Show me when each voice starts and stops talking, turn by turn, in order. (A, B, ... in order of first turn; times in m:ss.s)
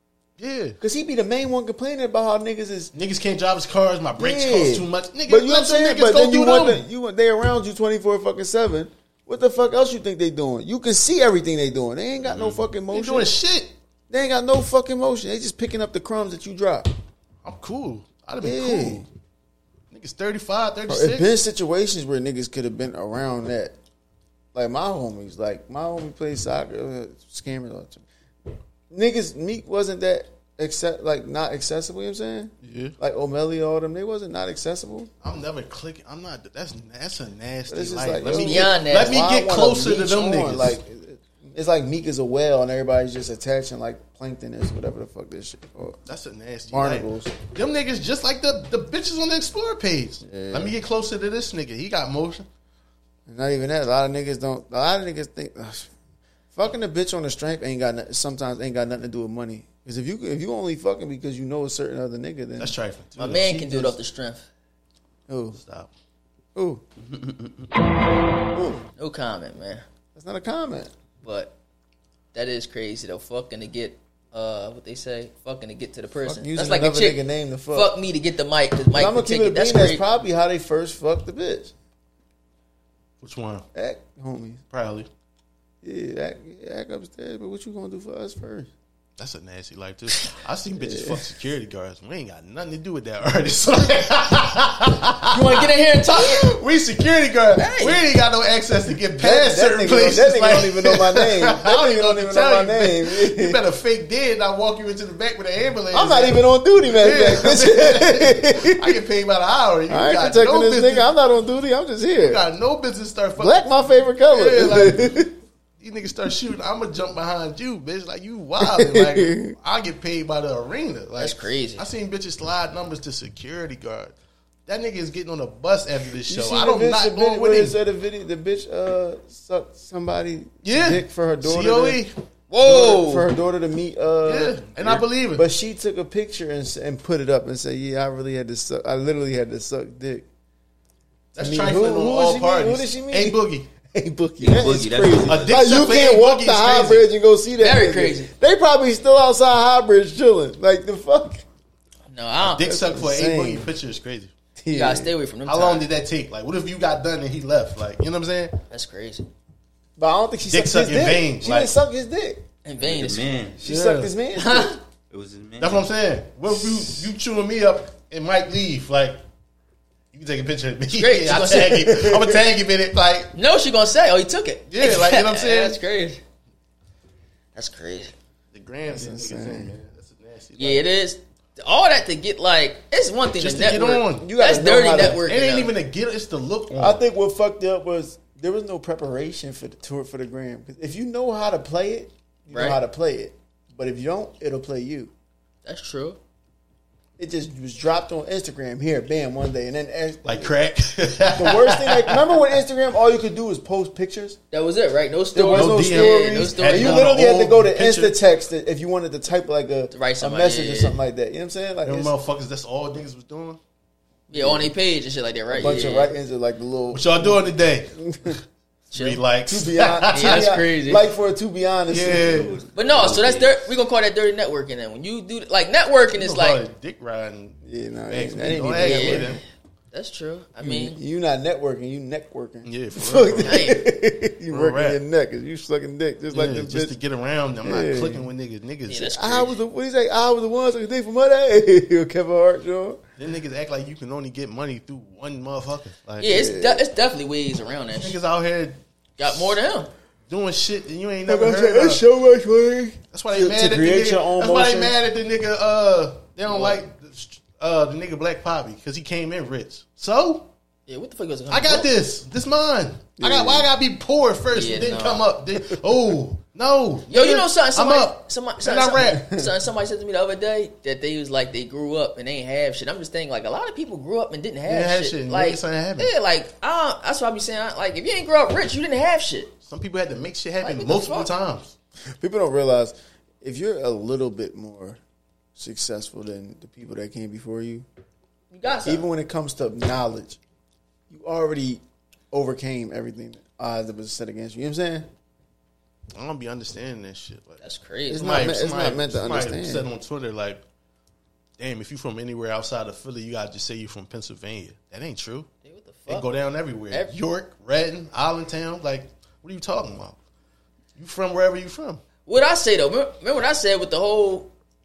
0:00.4-0:00.8 A
0:00.8-0:02.9 B
0:02.9-0:06.8 A
0:04.2-0:13.3 B
0:12.2-0:13.7 A
0:14.1-0:16.9 B
0:17.4-0:19.0 A
0:18.4-0:19.0 B
0:19.9-0:21.3 A
0:20.8-0:23.7 B
0:24.5-0:28.0 B
0:28.9-0:35.1 B
0:32.6-0:32.9 A
0:35.2-0:40.8 A
0:37.7-0:46.0 B
0:38.2-0:39.2 C
0:46.1-0:52.5 A
0:46.7-0:47.4 B
0:50.2-0:50.8 B
0:53.3-0:55.9 B
0:56.5-1:04.0 B
1:02.6-1:03.5 A
1:03.2-1:04.4 C
1:05.3-1:05.6 B
1:05.5-1:05.9 A
1:06.5-1:06.8 B
1:07.1-1:07.6 D
1:08.5-1:08.8 B
1:09.0-1:09.8 C
1:10.1-1:10.9 B
1:11.2-1:11.5 C
1:12.3-1:20.0 C
1:16.2-1:17.9 B
1:18.9-1:21.7 B
1:23.2-1:23.6 A
1:23.7-1:24.6 B
1:24.7-1:25.1 A
1:25.8-1:28.7 B
1:29.2-1:51.1 A
1:30.7-1:31.2 B
1:35.3-1:36.5 C
1:37.6-1:38.0 C
1:39.1-1:43.6 B
1:45.9-1:49.0 B
1:49.9-1:52.4 B
1:52.1-1:53.6 A
1:53.4-1:55.3 B
1:54.3-2:04.1 A
1:58.6-1:59.5 B
2:01.2-2:01.8 C
2:04.7-2:07.8 A
2:06.2-2:12.0 B
2:10.6-2:12.1 A
2:12.5-2:13.3 C
2:12.6-2:20.3 B
2:14.2-2:15.4 A
2:21.4-2:23.7 A
2:21.4-2:31.4 B
2:24.4-2:25.7 D
2:25.3-2:27.0 A
2:27.6-2:28.3 C
2:32.1-2:32.7 C
2:32.4-2:34.3 A
2:32.5-2:33.7 B
2:34.6-2:35.1 B
2:34.7-2:35.9 C
2:35.4-2:38.6 A
2:38.7-2:39.3 C
2:40.0-2:42.4 B
2:40.5-2:41.7 A
2:42.6-2:43.4 C
2:42.8-2:43.6 D
2:43.6-2:44.8 B
2:43.6-2:44.1 A
2:44.3-2:44.8 C
2:45.1-2:45.9 D
2:45.6-2:49.2 A
2:50.1-2:53.3 A
2:50.9-2:51.9 C
2:51.7-2:52.4 B
2:53.3-2:56.2 C
2:54.7-2:55.8 A
2:57.5-2:58.1 C
2:58.5-3:00.9 A
2:58.8-2:59.7 B
3:00.6-3:05.7 C
3:03.4-3:04.3 A
3:04.1-3:05.2 B
3:05.0-3:07.0 A
3:06.7-3:15.1 B
3:12.5-3:12.8 C
3:15.6-3:16.2 C
3:17.2-3:20.6 B
3:20.2-3:22.4 A
3:21.2-3:24.4 B
3:24.5-3:27.1 C
3:25.3-3:32.1 B
3:25.5-3:28.2 A
3:29.9-3:31.0 C
3:31.8-3:33.6 A
3:34.3-3:34.7 B
3:34.3-3:36.1 C
3:35.5-3:38.4 B
3:36.9-3:38.4 A
3:38.9-3:39.2 C
3:38.9-3:40.5 A
3:39.5-3:42.6 B
3:40.1-3:41.1 C
3:41.9-3:42.6 A
3:42.2-3:43.6 D
3:42.7-3:46.6 C
3:46.1-3:49.4 A
3:47.6-3:49.4 B
3:48.7-3:51.0 C
3:50.6-3:57.0 B
3:52.6-3:53.7 A
3:53.3-3:53.8 C
3:54.5-3:55.0 A
3:56.3-3:59.2 A
3:57.6-3:58.3 B
3:58.9-3:59.6 C
3:59.0-4:03.0 B
4:03.2-4:06.3 A
4:06.2-4:08.2 C
4:06.2-4:06.8 B
4:07.9-4:09.6 A
4:09.2-4:09.9 C
4:10.3-4:12.0 A
4:11.2-4:15.0 B
4:13.1-4:20.5 A
4:16.5-4:16.8 C
4:20.9-4:21.9 C
4:21.5-4:29.2 A
4:23.2-4:23.7 B
4:24.5-4:25.3 C
4:27.1-4:39.5 C
4:29.0-4:29.5 B
4:34.6-4:36.1 A
4:39.6-4:41.7 A
4:40.6-4:41.3 C
4:42.2-4:45.0 B
4:45.6-4:47.9 B
4:48.5-4:49.1 C
4:48.8-4:50.4 B
4:51.1-4:55.1 B
4:56.1-4:57.6 A
4:57.6-4:58.5 C
4:58.1-4:59.9 B
4:58.2-5:00.6 A
5:01.6-5:05.5 A
5:05.6-5:06.3 C
5:06.1-5:10.2 A
5:11.0-5:12.0 A
5:12.2-5:14.5 C